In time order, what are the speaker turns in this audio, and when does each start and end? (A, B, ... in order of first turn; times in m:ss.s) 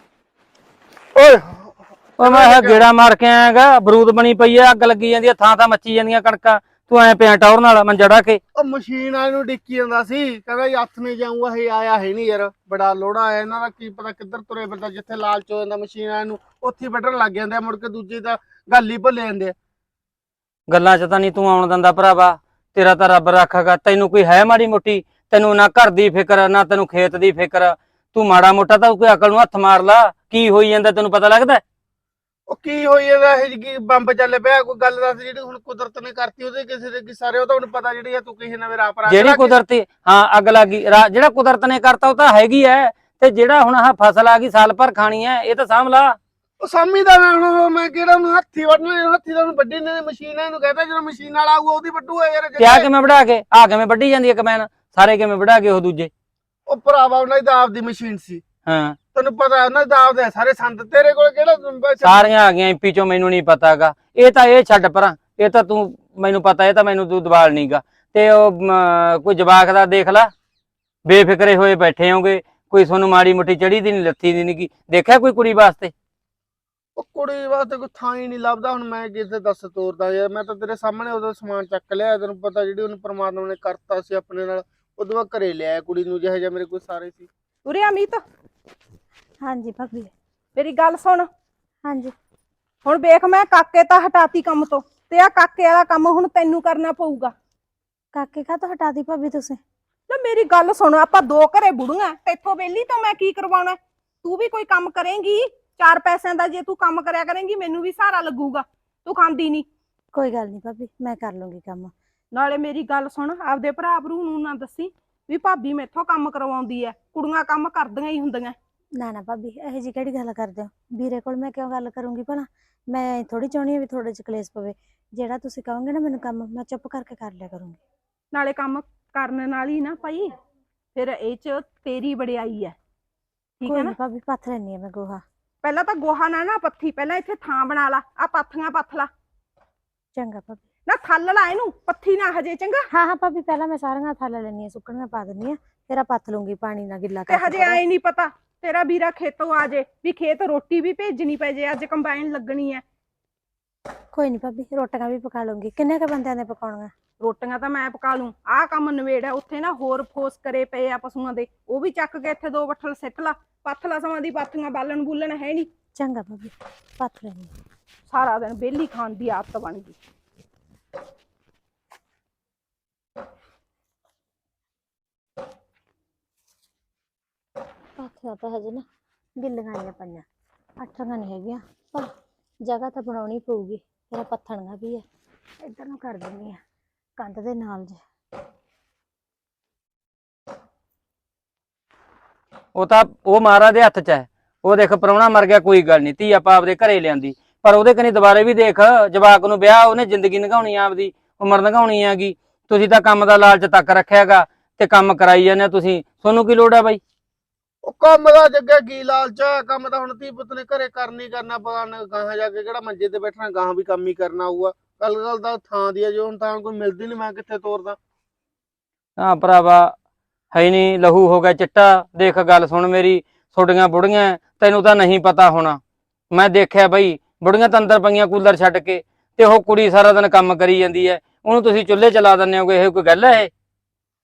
0:01.1-0:02.9 A
0:02.2-0:08.4 B
0:08.5-0:19.5 A
0:20.7-0:31.6 B
0:32.5-0:39.6 A
0:39.1-0:46.2 B
0:46.6-0:52.9 A
0:52.6-0:56.1 B
0:56.7-0:58.4 A
0:58.6-0:59.0 B
0:59.1-1:02.3 A
1:02.0-1:10.3 B
1:11.0-1:15.9 B
1:17.0-1:27.3 A
1:27.6-1:28.2 C
1:29.4-1:30.1 D
1:30.5-1:31.3 C
1:31.8-1:32.1 D
1:32.8-1:37.3 C
1:38.1-1:39.6 D
1:40.1-1:49.7 C
1:50.1-1:51.9 D
1:52.3-1:58.6 C
1:59.0-2:07.8 D
2:08.3-2:10.4 C
2:10.9-2:12.8 C
2:13.6-2:13.9 C
2:13.6-2:15.2 D
2:15.6-2:19.1 C
2:20.1-2:20.6 D
2:20.9-2:22.8 C
2:22.9-2:27.8 D
2:27.3-2:32.8 C
2:34.1-2:36.9 D
2:37.2-2:45.7 C
2:46.0-2:47.5 D
2:48.1-2:50.0 C
2:58.0-2:58.8 D
2:59.4-3:00.2 D
3:00.8-3:02.1 D
3:02.6-3:05.0 D
3:05.6-3:06.6 D
3:07.2-3:08.0 D
3:12.7-3:27.0 B
3:27.8-3:38.0 A
3:39.2-3:39.9 B
3:40.5-3:45.8 B
3:46.3-3:53.5 B